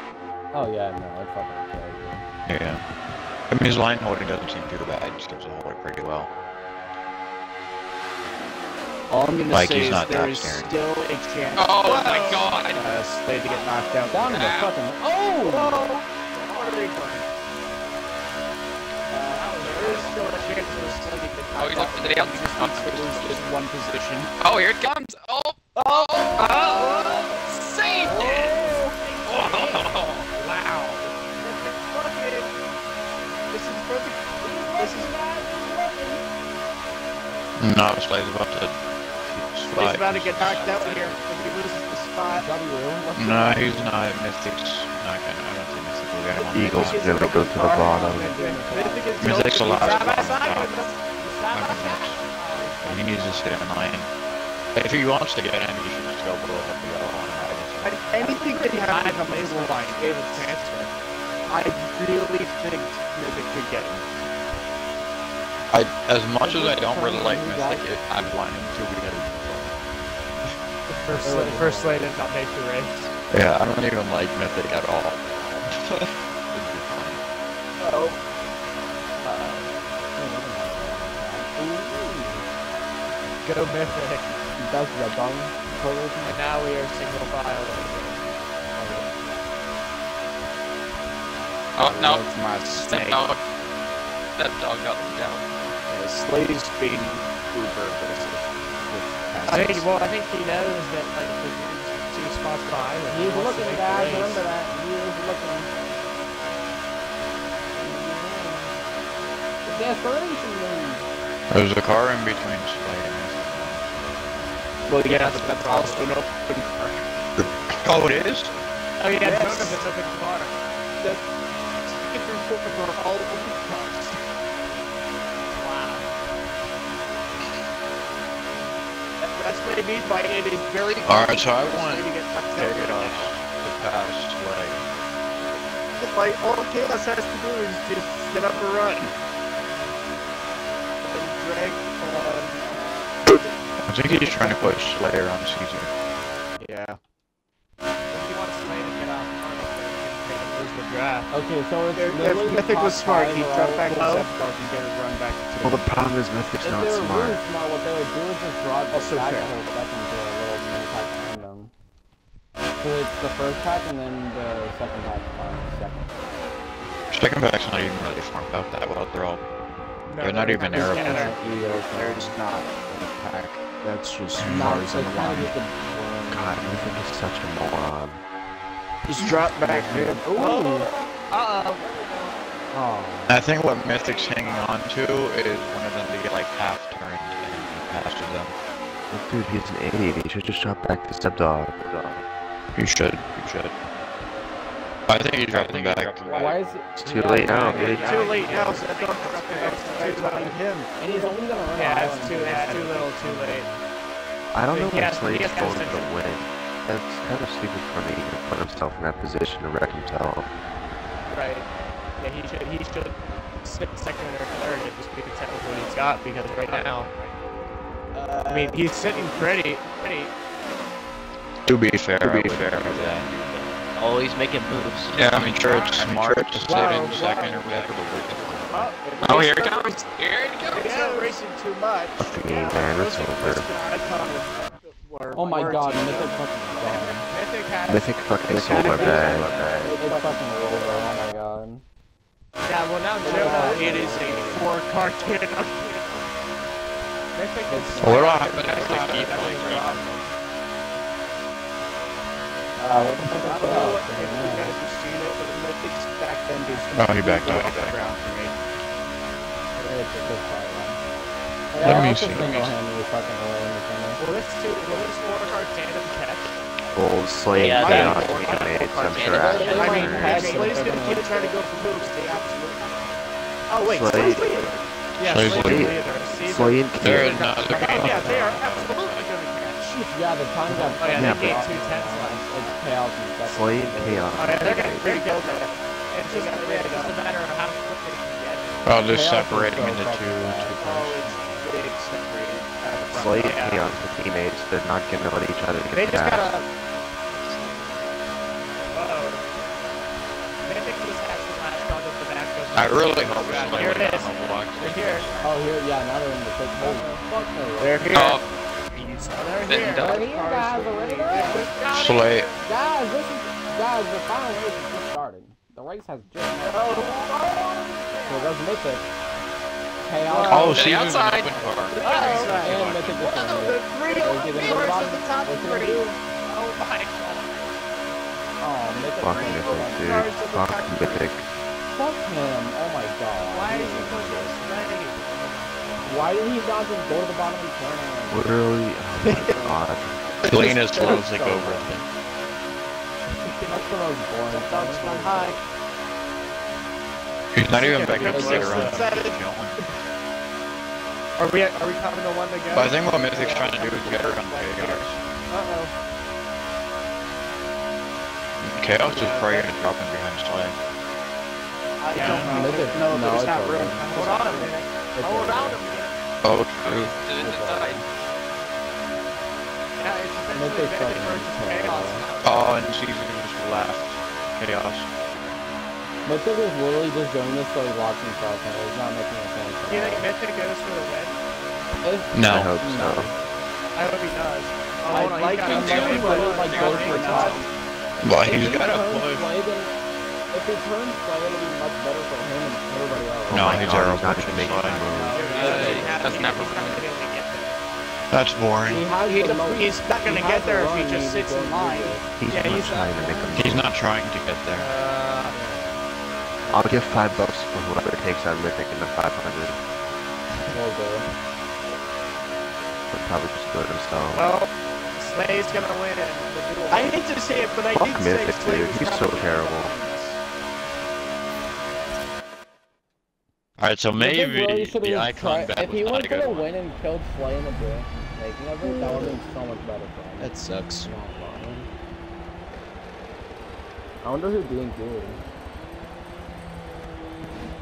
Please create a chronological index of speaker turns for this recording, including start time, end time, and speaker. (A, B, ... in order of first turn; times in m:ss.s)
0:00.5-0:02.3 A
0:02.5-0:02.8 B
0:03.5-0:06.3 B
0:09.1-0:14.5 C
0:09.5-0:10.7 B
0:11.5-0:12.9 D
0:13.5-0:13.9 E
0:13.9-0:14.8 D
0:14.0-0:15.8 A
0:15.4-0:17.3 C
0:16.5-0:17.2 E
0:19.1-0:24.3 C
0:19.3-0:21.2 E
0:21.5-0:23.4 D
0:24.4-0:28.6 D
0:25.7-0:32.5 C
0:28.1-0:28.9 A
0:29.2-0:30.3 D
0:33.5-0:35.2 C
0:34.4-0:36.2 A
0:37.6-0:40.7 B
0:39.7-0:42.5 C
0:40.4-0:41.2 D
0:40.6-0:41.1 E
0:42.3-0:44.1 A
0:43.2-0:47.1 B
0:46.3-0:50.3 C
0:46.5-0:48.3 F
0:47.7-0:49.3 A
0:48.2-0:53.5 E
0:49.2-0:50.7 B
0:51.5-0:52.2 B
0:52.8-0:54.1 B
0:54.7-0:58.2 B
0:57.8-1:00.9 C
0:58.6-1:00.8 E
1:01.5-1:04.0 C
1:05.7-1:09.8 B
1:06.4-1:07.9 A
1:10.9-1:13.2 E
1:11.2-1:12.2 A
1:13.3-1:17.2 B
1:17.8-1:18.2 C
1:19.2-1:19.6 C
1:20.1-1:22.5 A
1:23.4-1:24.4 E
1:24.6-1:26.4 A
1:26.2-1:29.0 E
1:31.8-1:32.3 D
1:31.8-1:33.3 C
1:32.8-1:33.4 D
1:34.3-1:35.4 D
1:35.9-1:39.9 C
1:39.5-1:44.5 E
1:43.1-1:45.7 A
1:47.8-1:48.8 A
1:49.6-1:51.0 A
1:51.5-1:53.8 B
1:54.9-1:57.0 C
1:55.0-1:56.2 E
1:57.4-1:58.5 B
1:59.0-2:00.6 E
1:59.2-1:59.9 C
2:01.0-2:01.3 C
2:01.8-2:04.2 C
2:05.6-2:05.9 C
2:05.6-2:06.0 E
2:09.2-2:13.3 C
2:11.0-2:14.8 B
2:16.0-2:19.1 C
2:21.0-2:22.7 C
2:23.2-2:23.5 C
2:23.8-2:25.9 B
2:26.6-2:27.0 C
2:28.1-2:31.3 E
2:31.3-2:34.2 A
2:31.9-2:35.9 C
2:33.9-2:34.2 E
2:35.6-2:37.4 F
2:36.6-2:41.7 A
2:38.9-2:39.5 C
2:42.8-2:46.2 A
2:47.1-2:49.4 B
2:50.1-2:51.3 E
2:50.2-2:51.3 B
2:50.5-2:52.4 A
2:51.0-2:55.5 C
2:54.5-2:56.9 A
2:56.3-2:58.2 F
2:59.0-3:00.5 C
2:59.6-3:00.9 A
3:00.3-3:02.3 E
3:02.7-3:03.4 A
3:03.3-3:08.5 B
3:04.2-3:04.6 E
3:09.1-3:12.2 F
3:12.7-3:13.7 B
3:15.1-3:16.7 B
3:15.5-3:16.2 D
3:16.3-3:18.0 A
3:17.0-3:18.3 F
3:17.2-3:17.7 B
3:17.3-3:20.6 E
3:17.7-3:20.9 C
3:21.0-3:23.8 A
3:21.7-3:23.7 E
3:22.5-3:23.0 C
3:24.5-3:30.5 F
3:24.7-3:26.1 E
3:31.3-3:31.7 E
3:32.2-3:37.1 E
3:36.6-3:37.3 C
3:38.1-3:39.6 C
3:38.5-3:40.3 E
3:41.6-3:43.3 B
3:42.2-3:43.1 F
3:42.3-3:46.6 G
3:45.1-3:48.9 B
3:45.3-3:46.0 D
3:45.6-3:46.1 C
3:46.6-3:47.6 C
3:46.6-3:47.6 E
3:48.7-3:50.1 C
3:49.2-3:51.1 D
3:50.6-3:57.0 C
3:50.8-3:51.4 E
3:52.2-3:53.7 F
3:55.3-3:57.3 A
3:55.8-3:56.2 E
3:56.8-4:00.4 E
3:57.9-4:00.0 F
3:58.6-4:01.4 C
3:58.7-3:59.7 G
3:59.9-4:01.8 A
4:02.6-4:05.8 E
4:03.2-4:04.7 A
4:03.2-4:06.2 C
4:07.3-4:10.3 E
4:07.7-4:08.2 A
4:08.0-4:10.0 B
4:08.2-4:10.0 D
4:12.8-4:14.7 A
4:13.3-4:18.6 C
4:13.5-4:14.0 E
4:16.9-4:18.0 B
4:19.8-4:21.0 A
4:21.7-4:24.2 A
4:21.8-4:22.8 B
4:24.2-4:26.6 E
4:26.9-4:30.4 F
4:27.5-4:30.4 G
4:27.6-4:33.0 C
4:27.8-4:31.3 E
4:29.4-4:31.5 A
4:33.7-4:34.8 C
4:33.8-4:34.8 F
4:35.2-4:36.0 B
4:35.2-4:38.7 E
4:35.4-4:37.4 F
4:37.0-4:39.3 B
4:37.7-4:40.1 C
4:40.1-4:44.4 A
4:40.7-4:41.6 F
4:41.0-4:42.7 E
4:43.4-4:45.1 F
4:44.4-4:48.8 E
4:44.8-4:47.2 C
4:48.8-4:51.0 B
4:49.0-4:51.6 A
4:50.8-4:53.8 C
4:53.1-4:56.5 F
4:53.4-4:53.9 E
4:55.9-4:56.7 E
4:58.9-4:59.4 E
5:00.6-5:05.3 E
5:02.7-5:05.6 B
5:05.4-5:08.0 A
5:06.8-5:07.2 E
5:07.8-5:11.8 C
5:08.1-5:08.4 D
5:09.3-5:10.1 E
5:09.6-5:10.2 D
5:10.0-5:11.7 A
5:11.3-5:12.6 E
5:11.9-5:12.5 B
5:12.6-5:17.1 A
5:16.6-5:18.1 C
5:18.1-5:18.5 E
5:18.2-5:19.1 A
5:20.0-5:20.9 A
5:20.3-5:21.1 C
5:20.4-5:23.4 B
5:20.7-5:21.6 D
5:21.9-5:22.8 C
5:22.0-5:22.8 E
5:22.6-5:26.2 A
5:23.4-5:26.2 C
5:24.0-5:25.1 E
5:26.4-5:27.7 E
5:28.6-5:30.2 A
5:29.2-5:31.3 C
5:29.2-5:31.4 F
5:31.9-5:34.7 A
5:33.5-5:36.3 E
5:36.0-5:38.5 A
5:38.3-5:40.2 F
5:39.2-5:39.8 C
5:40.4-5:42.0 B
5:40.5-5:41.2 C
5:40.5-5:41.9 A
5:43.3-5:43.9 E
5:43.6-5:45.6 A
5:44.5-5:45.6 E
5:45.0-5:45.5 C
5:47.5-5:49.8 B
5:47.7-5:49.2 E
5:48.2-5:49.4 C
5:48.3-5:48.8 A
5:51.4-5:55.9 E
5:52.7-5:55.2 B
5:53.9-5:54.2 C
5:58.6-6:00.8 B
5:59.0-5:59.9 C
6:02.0-6:04.7 C
6:02.1-6:03.1 E
6:02.2-6:02.6 B
6:02.4-6:04.1 A
6:04.1-6:06.1 E
6:05.1-6:05.8 A
6:06.4-6:07.1 B
6:06.8-6:08.0 D
6:07.4-6:08.0 A
6:10.0-6:12.8 E
6:10.5-6:12.2 A
6:12.4-6:15.1 B
6:16.2-6:20.3 A
6:19.9-6:21.4 E
6:22.0-6:23.3 A
6:22.3-6:22.7 B
6:22.4-6:23.3 F
6:23.9-6:27.7 E
6:25.0-6:27.7 C
6:25.6-6:27.4 D
6:25.7-6:27.6 A
6:28.2-6:29.6 B
6:28.4-6:29.9 A
6:30.5-6:34.0 A
6:33.5-6:35.4 F
6:33.5-6:35.2 B
6:34.4-6:36.7 C
6:35.1-6:37.8 E
6:35.5-6:37.1 D
6:38.3-6:39.1 B
6:38.9-6:42.3 A
6:39.2-6:42.2 C
6:42.4-6:43.8 F
6:42.5-6:43.8 E
6:43.5-6:44.9 B
6:44.8-6:45.6 E
6:45.5-6:46.0 A
6:46.7-6:49.8 F
6:50.5-6:50.8 C
6:50.7-6:51.3 A
6:53.1-6:54.5 F
6:54.3-6:57.2 E
6:56.9-7:00.4 C
6:57.9-6:59.9 F
7:03.8-7:06.7 B
7:04.2-7:11.9 A
7:09.0-7:09.4 C
7:10.4-7:11.1 C
7:14.2-7:15.4 A